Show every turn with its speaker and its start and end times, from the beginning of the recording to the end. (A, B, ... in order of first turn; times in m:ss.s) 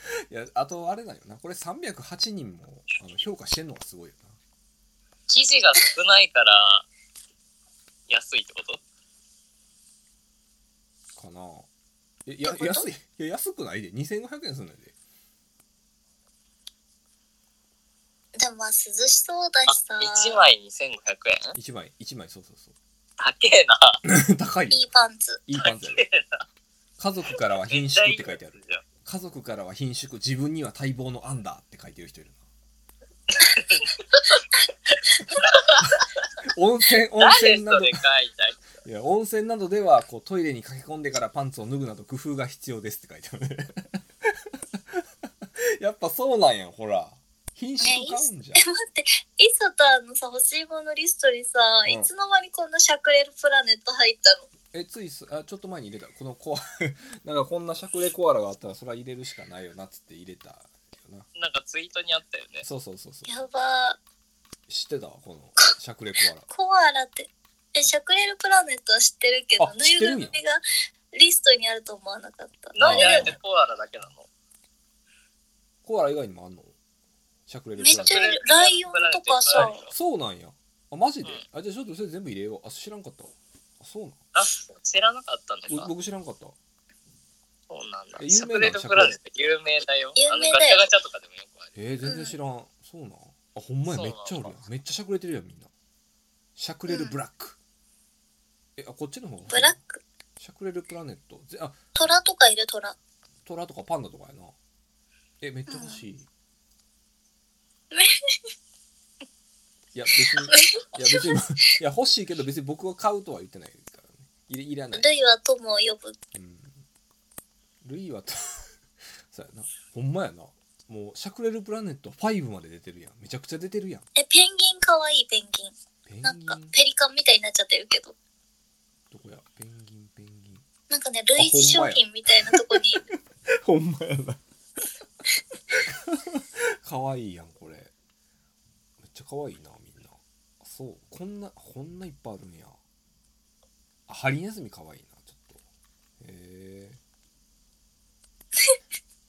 0:00.3-0:04.4 A
0:05.3-0:06.9 B
0:08.1-0:08.8 B
0:11.2-0:11.7 A
0:12.3-0:14.9 A
0:12.4-0:12.9 C
0:18.4-0:20.4 C
0:19.7-0:21.6 B
0:21.6-0:22.7 A
0:23.2-0:24.0 B
0:24.0-0:24.8 A
0:24.7-0:25.4 C
0:25.5-0:26.0 A
0:25.6-0:26.4 B
0:27.0-0:32.4 A
0:27.7-0:28.8 B
0:33.3-0:34.4 B
0:35.3-0:36.1 B
0:36.5-0:38.0 A
0:37.2-0:38.7 B
0:38.8-0:45.0 A
0:45.8-0:48.6 A
0:47.8-0:54.5 C
0:54.7-1:01.3 A
1:01.4-1:02.7 B
1:02.6-1:03.5 A
1:03.3-1:04.0 C
1:04.7-1:06.5 A
1:06.5-1:10.6 C
1:09.6-1:10.4 A
1:11.1-1:13.3 C
1:12.8-1:14.3 B
1:12.8-1:13.4 A
1:15.8-1:16.8 A
1:17.5-1:18.3 A
1:17.8-1:19.9 C
1:18.1-1:19.9 B
1:19.6-1:24.2 A
1:24.4-1:25.9 B
1:25.7-1:26.6 A
1:27.7-1:31.7 B
1:28.2-1:29.2 A
1:30.2-1:30.9 C
1:31.8-1:35.7 A
1:32.0-1:32.3 C
1:33.9-1:34.6 B
1:36.6-1:37.6 A
1:36.9-1:37.2 C
1:38.8-1:39.8 A
1:39.5-1:40.0 C
1:40.4-1:41.9 A
1:42.0-1:43.0 C
1:43.5-1:44.6 A
1:45.4-1:46.3 A
1:45.7-1:46.0 C
1:49.9-1:55.1 A
1:50.5-1:51.3 C
1:54.9-1:56.2 C
1:56.3-1:56.8 A
1:57.8-1:58.7 A
1:59.3-2:04.1 A
2:04.2-2:08.2 C
2:06.1-2:06.8 A
2:09.1-2:10.6 A
2:10.9-2:13.0 C
2:11.4-2:14.4 A
2:15.7-2:17.9 A
2:19.0-2:22.8 A
2:24.1-2:25.6 A
2:26.2-2:27.0 A